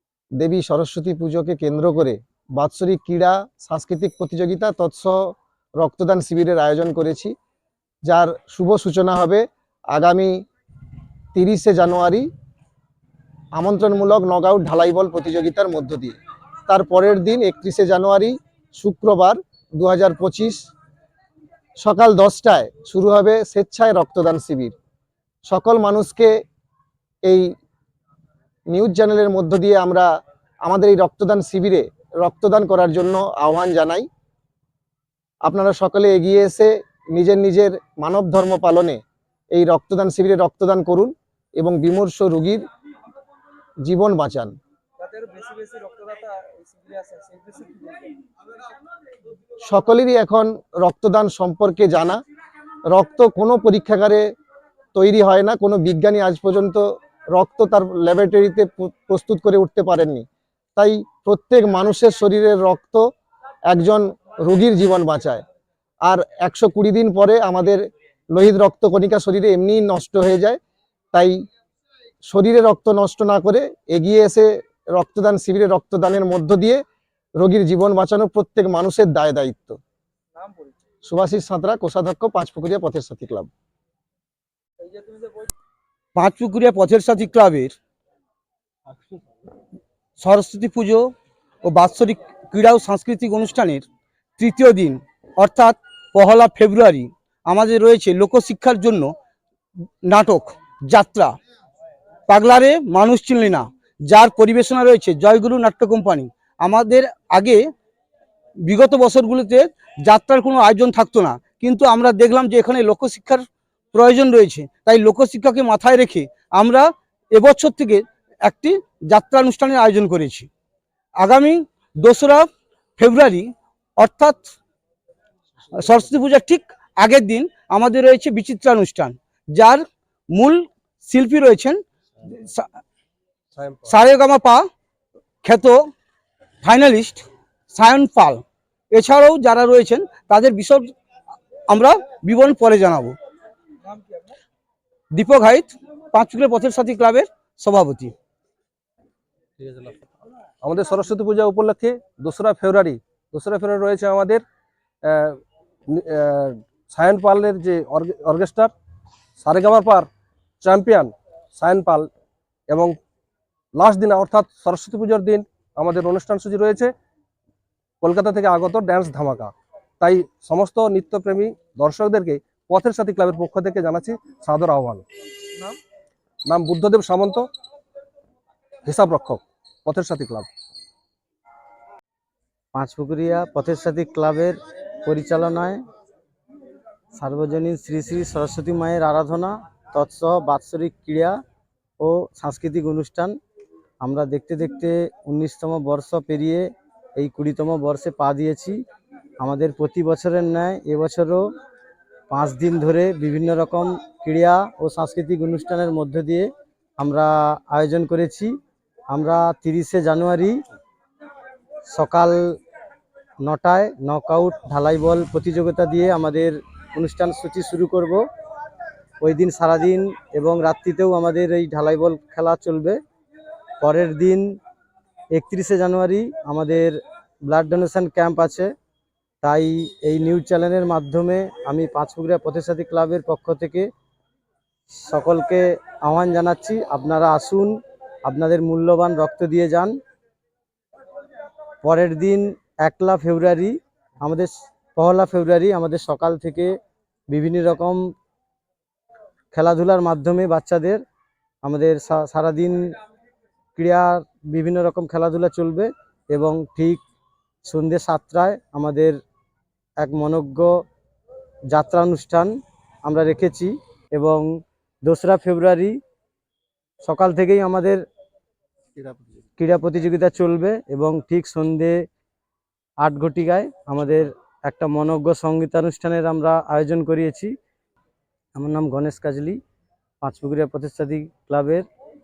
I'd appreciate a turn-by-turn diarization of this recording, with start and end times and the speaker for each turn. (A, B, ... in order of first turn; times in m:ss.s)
0:00.4-0:07.3 A
0:08.1-0:10.3 A
0:11.3-0:12.3 A
0:13.6-0:16.1 A
0:16.7-0:20.7 A
0:21.8-0:24.7 A
0:25.5-0:26.3 A
0:27.2-0:27.5 A
0:28.7-0:30.1 A
0:30.6-0:34.1 A
0:35.4-0:39.0 A
0:39.5-0:42.6 A
0:43.8-0:44.6 A
0:45.0-0:48.2 B
0:49.6-0:52.2 A
0:52.9-0:54.3 A
0:54.9-1:03.0 A
1:03.7-1:05.4 A
1:06.0-1:07.8 A
1:08.3-1:10.6 A
1:11.1-1:11.4 A
1:12.2-1:16.8 A
1:17.4-1:19.8 A
1:20.4-1:20.7 B
1:21.0-1:23.5 A
1:24.9-1:25.3 B
1:26.2-1:27.8 C
1:30.2-1:31.1 C
1:31.6-1:33.8 C
1:34.4-1:39.1 C
1:40.1-1:41.4 C
1:42.3-1:47.6 C
1:48.7-2:00.5 C
2:01.2-2:02.5 C
2:03.0-2:04.4 C
2:05.7-2:09.8 C
2:10.3-2:11.8 C
2:12.3-2:12.7 C
2:13.6-2:13.9 D
2:13.8-2:14.6 C
2:15.4-2:15.8 C
2:16.6-2:18.4 C
2:18.9-2:20.9 C
2:21.7-2:23.2 C
2:25.1-2:28.1 C
2:29.6-2:30.0 D
2:30.6-2:34.4 D
2:35.0-2:38.7 D
2:39.4-2:40.1 D
2:40.6-2:42.1 D
2:42.7-2:43.0 D
2:43.7-2:46.9 D
2:48.0-2:55.0 D
2:56.4-2:57.5 D
2:58.8-3:00.5 D
3:02.7-3:05.8 E
3:07.1-3:11.4 E
3:12.0-3:13.4 E
3:14.0-3:18.8 E
3:19.4-3:21.4 E
3:22.3-3:28.6 E
3:29.1-3:30.6 E
3:31.9-3:32.6 E
3:33.4-3:38.2 E
3:39.2-3:43.0 E
3:43.8-3:44.6 E
3:45.3-3:48.7 E
3:49.4-3:53.9 E
3:54.9-4:00.0 E
4:01.8-4:06.7 E
4:07.3-4:08.0 E
4:09.5-4:11.0 E
4:11.6-4:12.9 E
4:13.7-4:17.0 E
4:17.6-4:19.2 E
4:20.0-4:20.7 E
4:21.7-4:24.5 E
4:25.0-4:26.0 E
4:27.0-4:28.0 E
4:29.6-4:32.0 E
4:33.0-4:37.5 E
4:38.5-4:39.6 E
4:40.2-4:41.9 E